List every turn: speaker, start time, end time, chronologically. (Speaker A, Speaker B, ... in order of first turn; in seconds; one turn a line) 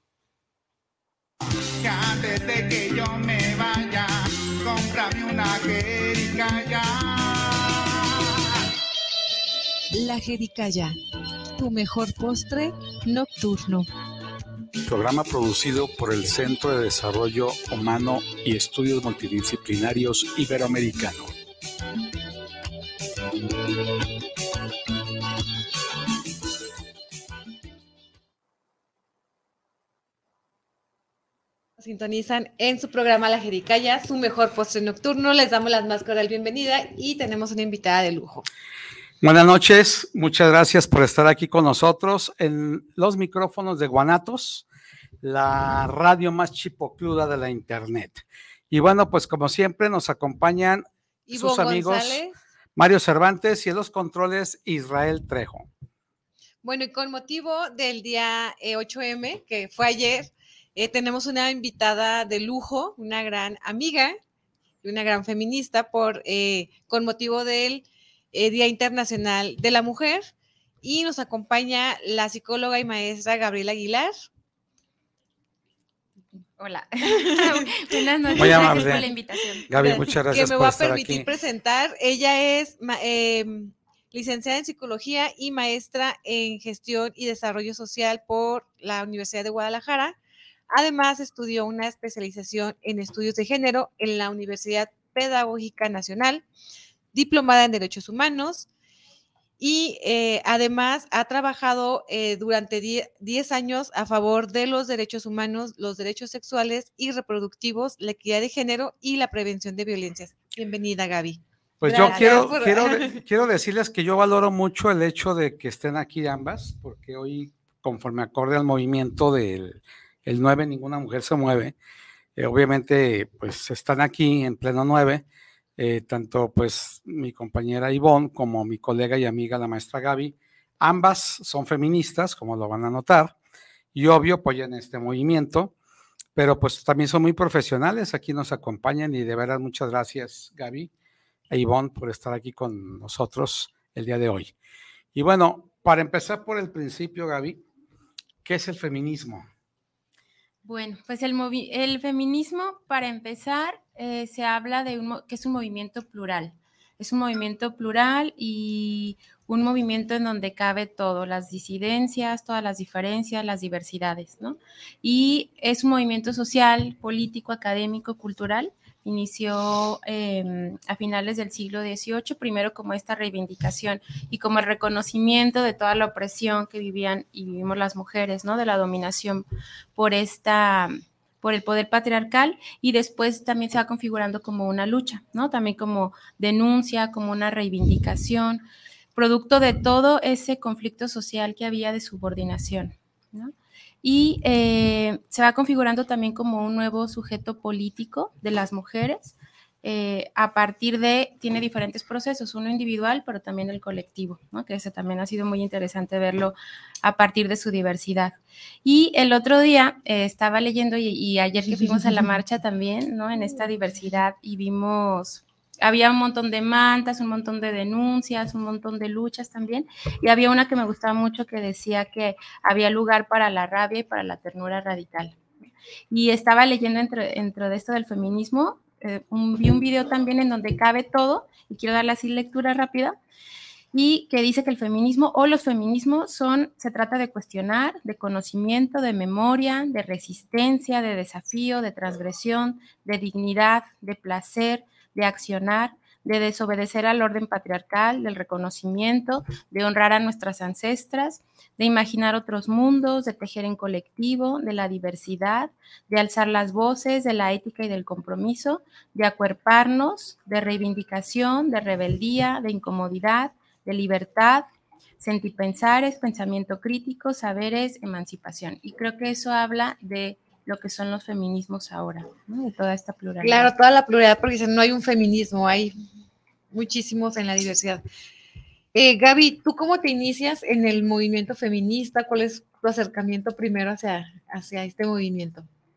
Speaker A: 1.8-8.2
Speaker B: 10.0-10.8
Speaker C: 10.3-10.9
Speaker B: 11.6-12.5
Speaker C: 11.9-12.6
Speaker C: 13.2-13.8
Speaker D: 14.8-21.3
Speaker B: 31.8-38.5
Speaker D: 39.2-44.7
Speaker D: 45.2-52.2
Speaker B: 51.3-52.3
Speaker D: 52.8-55.7
Speaker B: 56.6-64.2
Speaker B: 64.8-74.2
Speaker E: 76.6-79.7
Speaker B: 77.2-90.2
Speaker D: 78.4-79.1
Speaker D: 79.7-81.3
Speaker B: 90.7-96.4
Speaker B: 97.1-98.7
Speaker B: 99.6-113.2
Speaker D: 111.8-121.8
Speaker E: 111.9-112.5
Speaker D: 122.4-125.2
Speaker D: 125.8-133.3
Speaker D: 133.9-135.7
Speaker D: 136.3-140.9
Speaker D: 141.5-144.5
Speaker D: 145.1-147.6
Speaker D: 148.4-149.4
Speaker E: 150.6-225.4
Speaker B: 211.7-212.2
Speaker E: 226.1-233.2
Speaker E: 233.9-264.7
Speaker E: 265.2-273.7
Speaker B: 273.4-276.0
Speaker B: 276.7-278.0
Speaker B: 278.9-285.7